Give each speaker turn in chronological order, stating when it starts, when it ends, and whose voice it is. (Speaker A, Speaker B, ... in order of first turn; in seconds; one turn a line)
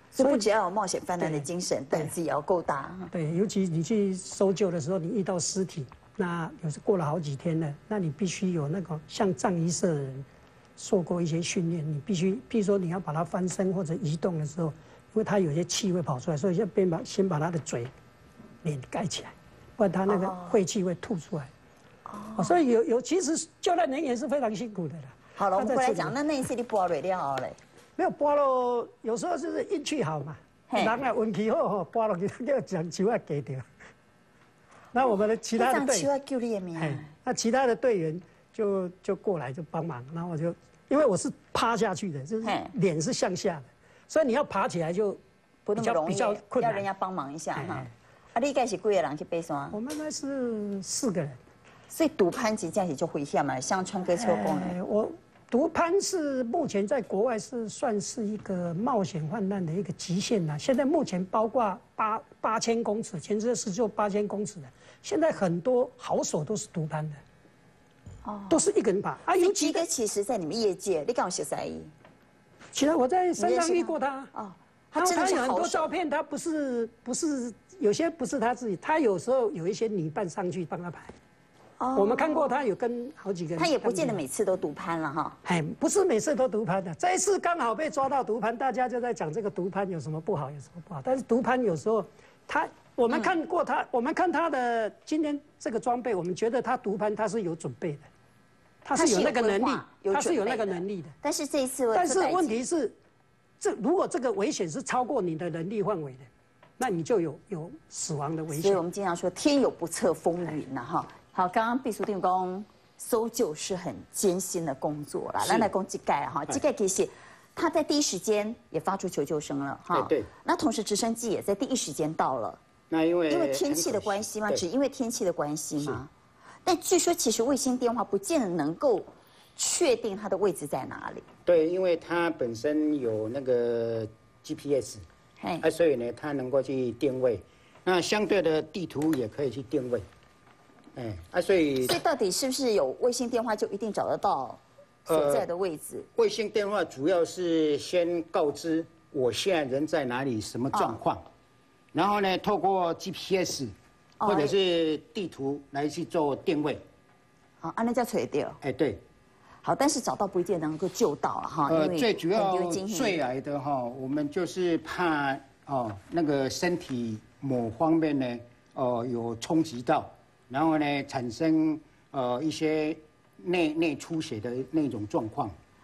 Speaker A: 0.1-3.1
Speaker B: 0.2-0.4
Speaker B: 1.2-2.1
Speaker B: 3.1-10.2
Speaker B: 10.8-17.9
Speaker B: 18.6-21.5
Speaker A: 20.1-20.6
Speaker A: 22.1-22.6
Speaker B: 22.4-26.1
Speaker A: 25.4-27.6
Speaker B: 28.0-33.6
Speaker A: 30.7-30.9
Speaker B: 34.9-36.1
Speaker A: 35.6-37.1
Speaker B: 36.8-45.2
Speaker A: 42.4-42.7
Speaker A: 45.6-49.8
Speaker B: 45.8-46.8
Speaker B: 47.6-47.9
Speaker B: 49.7-51.4
Speaker A: 51.9-54.8
Speaker B: 54.2-67.2
Speaker A: 68.2-68.6
Speaker B: 68.5-69.8
Speaker A: 69.3-71.9
Speaker B: 72.7-74.3
Speaker A: 73.4-75.9
Speaker B: 75.0-81.1
Speaker A: 81.8-82.6
Speaker B: 82.0-84.2
Speaker A: 83.6-85.4
Speaker B: 85.4-98.1
Speaker B: 98.8-101.1
Speaker A: 98.9-102.5
Speaker B: 101.9-102.9
Speaker B: 103.6-106.3
Speaker B: 106.8-108.8
Speaker A: 108.5-122.6
Speaker C: 115.4-115.7
Speaker C: 119.9-120.3
Speaker C: 122.9-124.6
Speaker A: 123.3-126.1
Speaker A: 126.6-131.2
Speaker C: 131.4-135.0
Speaker C: 135.6-140.1
Speaker C: 140.9-142.0
Speaker A: 141.8-146.1
Speaker C: 145.1-145.5
Speaker C: 146.2-151.2
Speaker A: 150.7-151.0
Speaker C: 151.9-156.8
Speaker A: 154.2-154.6
Speaker A: 157.6-158.6
Speaker C: 158.6-159.0
Speaker A: 159.6-163.2
Speaker C: 161.7-175.5